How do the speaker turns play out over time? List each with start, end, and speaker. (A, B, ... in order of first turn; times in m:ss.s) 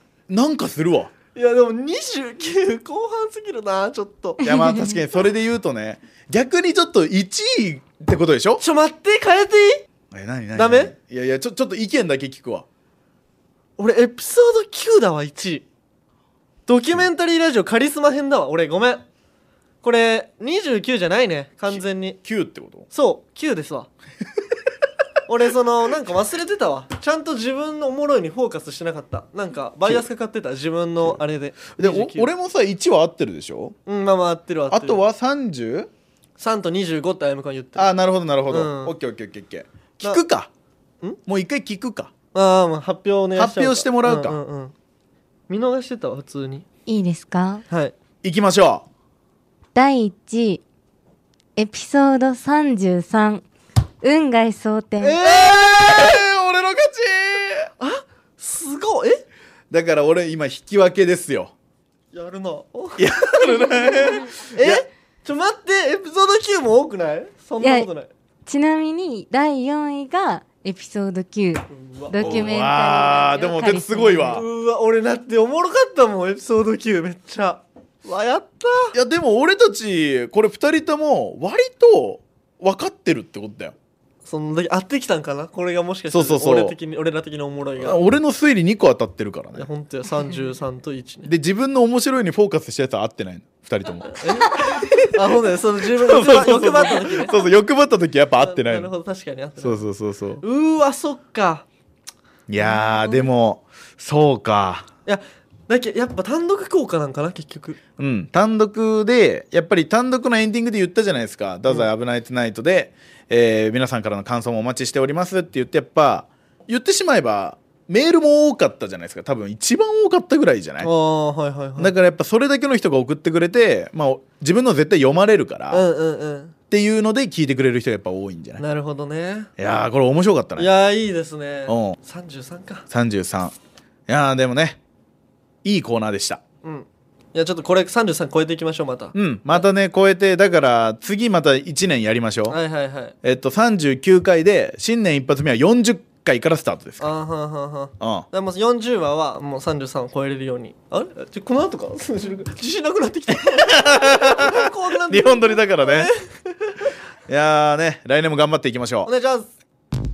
0:00.3-0:01.1 A
0:01.3-0:04.5 B
0:04.4-0:08.6 A
0:08.6-0:09.8 B
0:10.1-0:12.6 A
0:10.5-0:10.9 B
0:13.8-0:15.6 B
0:16.7-0:19.0 B
0:19.8-0:22.2 B
0:21.7-0:22.9 A
0:22.9-0:23.9 B
0:25.2-0:32.3 B
0:31.8-0:33.8 A
0:33.8-0:35.0 B
0:34.7-0:35.9 A
0:36.4-0:37.9 B
0:37.8-0:40.5 A
0:38.5-0:38.9 B
0:41.2-0:42.1 A
0:42.3-0:44.7 B
0:43.4-0:44.4 A
0:45.5-0:46.7 B
0:46.8-0:47.6 C
0:47.7-0:48.0 B
0:48.2-0:48.8 A
0:49.7-0:50.6 C
0:51.6-0:53.4 C
0:54.0-0:55.2 C
0:55.0-0:56.2 B
0:55.2-0:57.7 A
0:57.8-0:59.2 B
0:59.7-1:01.5 A
1:02.1-1:08.1 B
1:03.0-1:04.8 A
1:07.6-1:07.9 C
1:08.4-1:14.4 C
1:11.7-1:12.4 B
1:12.2-1:14.4 A
1:14.2-1:18.9 B
1:18.9-1:23.7 A
1:24.2-1:28.0 B
1:26.1-1:26.8 A
1:27.8-1:29.7 A
1:29.5-1:31.3 B
1:31.2-1:35.2 A
1:34.2-1:37.4 B
1:36.0-1:38.9 A
1:38.4-1:39.8 B
1:39.6-1:40.4 A
1:40.4-1:41.7 B
1:42.5-1:44.9 A
1:42.6-1:43.2 B
1:45.0-1:47.8 B
1:48.0-2:00.9 A
2:00.8-2:01.9 B
2:01.8-2:05.8 A
2:05.7-2:06.5 B
2:06.7-2:08.6 A
2:08.6-2:09.5 B
2:09.6-2:10.7 A
2:10.6-2:12.8 B
2:11.7-2:12.0 A
2:12.9-2:13.5 A
2:14.1-2:14.8 A
2:15.6-2:16.4 A
2:16.6-2:19.6 B
2:19.1-2:22.6 A
2:22.5-2:23.1 B
2:23.2-2:27.1 A
2:27.0-2:36.9 B
2:28.0-2:28.3 A
2:33.4-2:36.1 A
2:37.3-2:39.1 A
2:39.0-2:39.5 B